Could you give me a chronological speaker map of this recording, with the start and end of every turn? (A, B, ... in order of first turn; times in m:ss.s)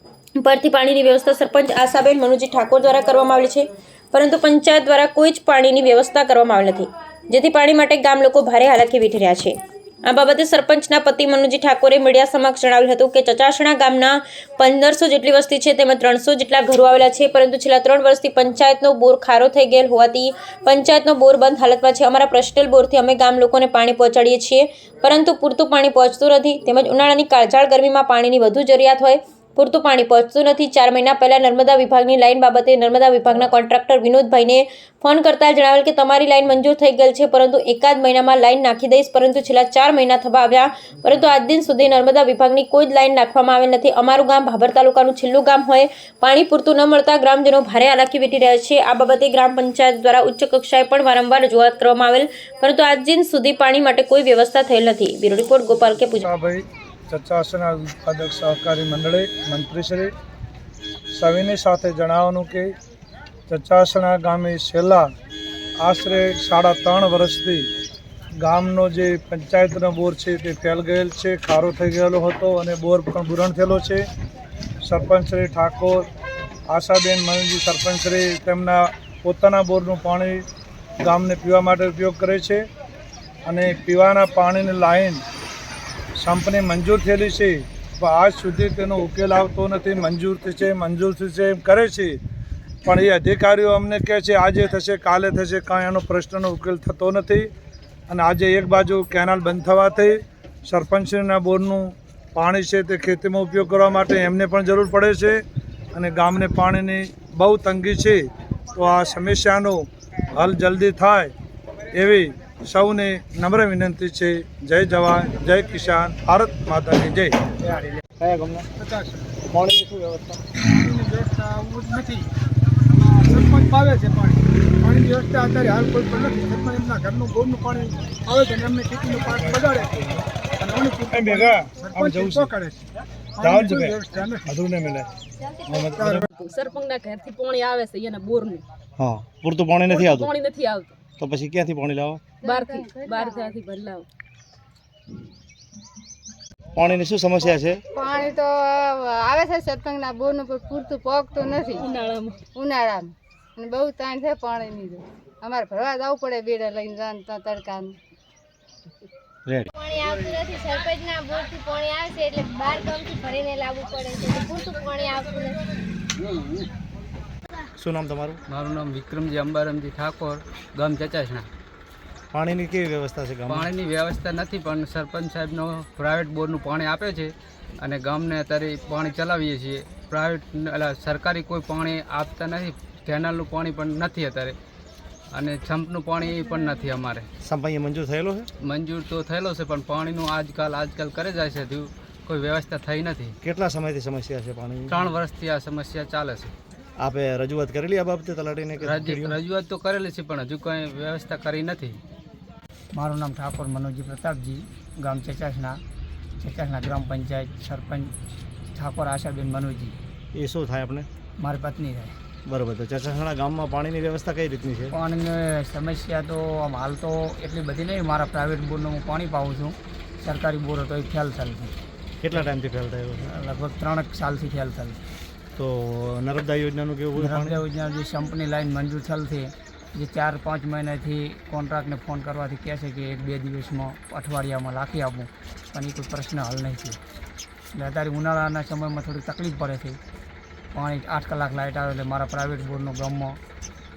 0:00.4-0:09.5 A
0:10.1-0:56.3 A
0:56.1-1:00.1 B
1:01.1-1:02.7 B
1:03.5-1:05.0 B
1:05.8-1:07.7 B
1:08.4-1:14.0 B
1:14.8-1:16.1 B
1:16.7-1:20.4 B
1:21.0-1:22.6 B
1:23.4-1:25.2 B
1:26.2-1:32.2 B
1:32.8-1:37.5 B
1:38.1-1:45.4 B
1:45.9-1:48.2 B
1:48.8-1:51.3 B
1:51.9-1:57.4 B
1:57.6-1:58.7 C
1:58.8-1:59.3 D
1:59.5-2:00.4 C
2:00.6-2:02.3 D
2:02.9-2:10.0 D
2:09.3-2:10.2 B
2:10.6-2:12.8 D
2:11.1-2:12.5 B
2:13.4-2:14.5 D
2:13.4-2:15.1 B
2:15.6-2:16.3 B
2:16.0-2:16.3 D
2:16.3-2:18.6 E
2:19.0-2:20.3 C
2:19.9-2:21.0 E
2:21.2-2:22.2 C
2:22.4-2:23.5 F
2:22.4-2:24.0 E
2:26.7-2:27.8 C
2:27.9-2:31.9 F
2:31.8-2:32.4 E
2:32.5-2:38.0 F
2:39.4-2:39.7 C
2:39.7-2:45.6 G
2:47.8-2:48.4 C
2:48.5-2:51.5 H
2:52.3-2:53.7 C
2:53.5-3:04.6 H
3:05.3-3:07.3 H
3:07.4-3:08.5 C
3:08.6-3:13.3 H
3:13.4-3:15.1 C
3:14.9-3:16.5 H
3:17.0-3:19.4 C
3:18.8-3:22.0 H
3:22.9-3:25.8 I
3:26.4-3:28.1 I
3:28.7-3:30.0 I
3:30.3-3:31.1 C
3:31.4-3:32.2 I
3:32.4-3:35.0 C
3:34.9-3:41.7 I
3:42.2-3:43.3 C
3:43.3-3:45.0 I
3:45.6-3:47.6 C
3:47.2-3:57.0 I
3:57.7-4:00.0 I
4:00.7-4:03.4 I